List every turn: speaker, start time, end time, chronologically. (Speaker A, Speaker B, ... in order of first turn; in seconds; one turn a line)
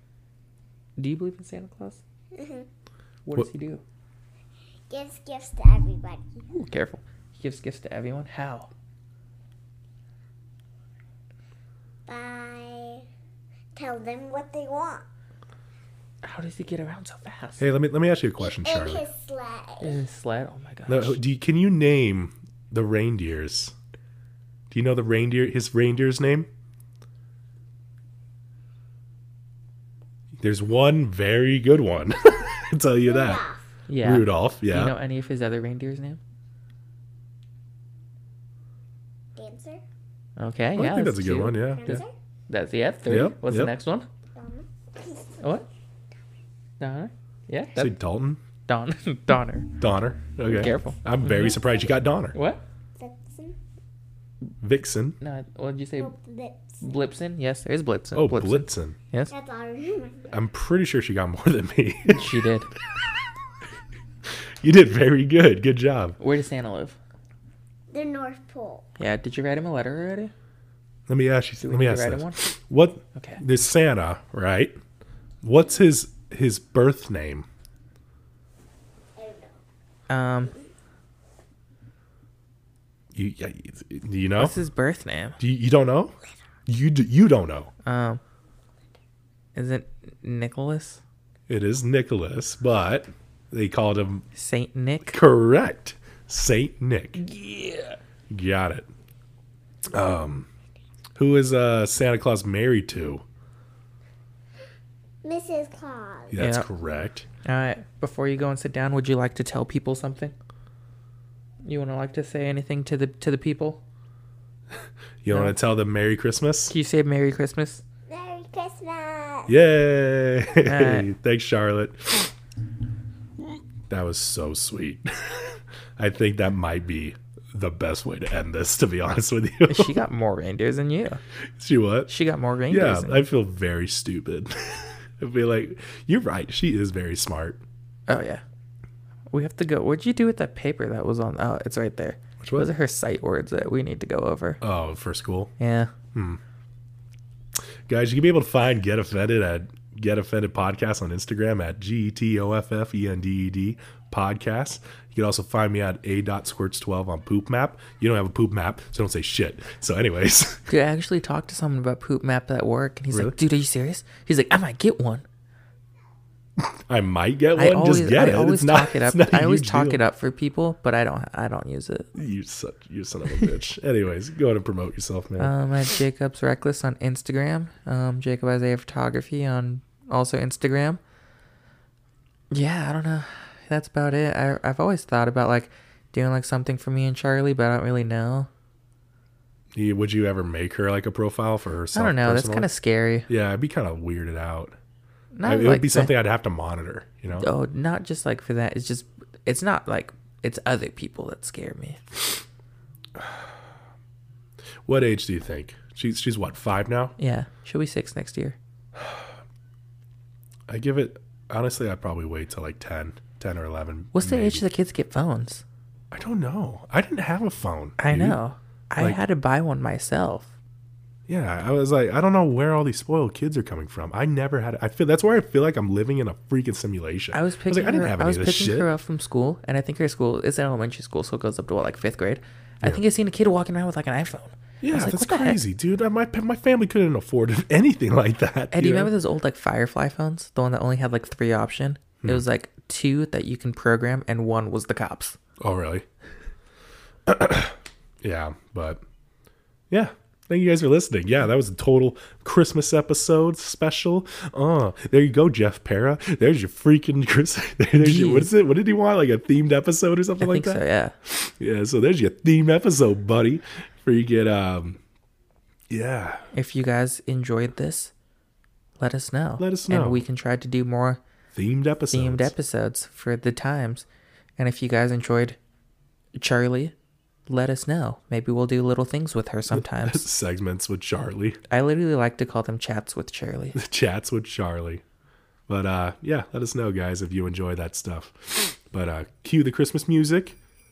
Speaker A: 1.0-2.0
Speaker B: 2.3-2.7
Speaker A: 3.2-3.8
Speaker B: 4.9-6.4
Speaker A: 6.5-8.7
Speaker B: 12.1-13.0
Speaker B: 13.8-15.0
Speaker A: 16.2-17.6
Speaker C: 17.6-19.0
Speaker B: 18.4-20.0
Speaker A: 19.8-21.2
Speaker C: 20.9-23.7
Speaker C: 24.7-26.5
Speaker C: 30.4-33.4
Speaker B: 33.1-33.7
Speaker A: 33.9-36.2
Speaker C: 34.0-34.9
Speaker B: 39.4-39.8
Speaker A: 40.4-44.1
Speaker C: 40.8-42.0
Speaker B: 41.7-42.1
Speaker C: 43.1-43.7
Speaker B: 44.3-45.4
Speaker A: 45.4-45.6
Speaker A: 46.8-47.9
Speaker C: 47.7-48.4
Speaker A: 48.6-49.7
Speaker C: 49.8-52.4
Speaker A: 50.5-51.5
Speaker B: 51.5-51.9
Speaker A: 52.3-52.6
Speaker B: 53.0-53.6
Speaker C: 54.6-55.2
Speaker A: 55.2-56.1
Speaker B: 56.0-57.0
Speaker A: 56.8-59.3
Speaker C: 58.1-59.0
Speaker B: 59.3-60.3
Speaker C: 60.3-62.3
Speaker A: 62.0-62.7
Speaker C: 64.6-66.2
Speaker A: 66.2-67.0
Speaker B: 67.9-68.9
Speaker A: 69.0-70.3
Speaker C: 71.1-74.8
Speaker A: 71.6-72.4
Speaker A: 73.2-73.4
Speaker C: 75.4-77.5
Speaker B: 79.2-79.5
Speaker A: 80.1-80.5
Speaker C: 83.1-84.5
Speaker A: 84.4-85.4
Speaker C: 85.4-86.1
Speaker C: 86.7-87.7
Speaker A: 87.8-88.2
Speaker A: 89.5-91.0
Speaker C: 91.5-94.2
Speaker A: 94.3-95.2
Speaker C: 95.0-97.2
Speaker A: 97.2-98.0
Speaker C: 98.3-98.9
Speaker C: 99.9-100.5
Speaker C: 101.2-103.2
Speaker B: 105.2-106.4
Speaker C: 106.3-107.2
Speaker A: 106.4-106.7
Speaker A: 107.4-110.3
Speaker A: 111.6-113.8
Speaker C: 115.2-116.7
Speaker A: 115.3-115.5
Speaker A: 116.7-117.8
Speaker B: 118.1-119.5
Speaker C: 119.5-122.3
Speaker A: 120.6-121.1
Speaker C: 123.9-130.0
Speaker A: 129.7-131.2
Speaker C: 131.6-132.1
Speaker A: 132.1-133.2
Speaker C: 132.7-137.6
Speaker A: 138.1-138.4
Speaker A: 139.3-144.6
Speaker C: 142.4-142.7
Speaker C: 144.6-145.5
Speaker A: 145.6-145.9
Speaker C: 146.1-146.4
Speaker C: 147.9-160.7
Speaker A: 160.7-165.2
Speaker C: 163.1-163.4
Speaker C: 166.6-170.0
Speaker A: 167.6-172.1
Speaker C: 172.1-175.5
Speaker A: 175.4-181.0
Speaker A: 182.5-188.5
Speaker C: 189.7-192.7
Speaker A: 191.9-193.3
Speaker C: 193.3-194.7
Speaker A: 195.3-196.1
Speaker C: 195.4-197.5
Speaker A: 197.3-202.0
Speaker C: 204.8-207.2
Speaker A: 207.2-208.6
Speaker C: 209.0-209.2
Speaker C: 210.7-214.6
Speaker A: 214.1-215.6
Speaker C: 216.1-218.4
Speaker A: 218.0-220.5
Speaker C: 221.3-228.9
Speaker A: 227.3-235.6
Speaker C: 234.8-239.1
Speaker A: 238.7-245.4
Speaker C: 245.6-246.1
Speaker C: 247.3-249.0
Speaker C: 249.9-265.0
Speaker A: 258.0-258.5
Speaker A: 260.4-261.1
Speaker C: 265.9-266.5
Speaker A: 266.5-268.1
Speaker A: 269.0-271.2
Speaker C: 269.6-270.2
Speaker C: 271.5-272.5
Speaker A: 272.1-274.1
Speaker A: 274.6-275.6
Speaker A: 276.3-276.9
Speaker A: 277.5-280.2
Speaker C: 279.7-281.6
Speaker A: 281.7-283.8
Speaker C: 283.7-285.0
Speaker C: 285.7-290.6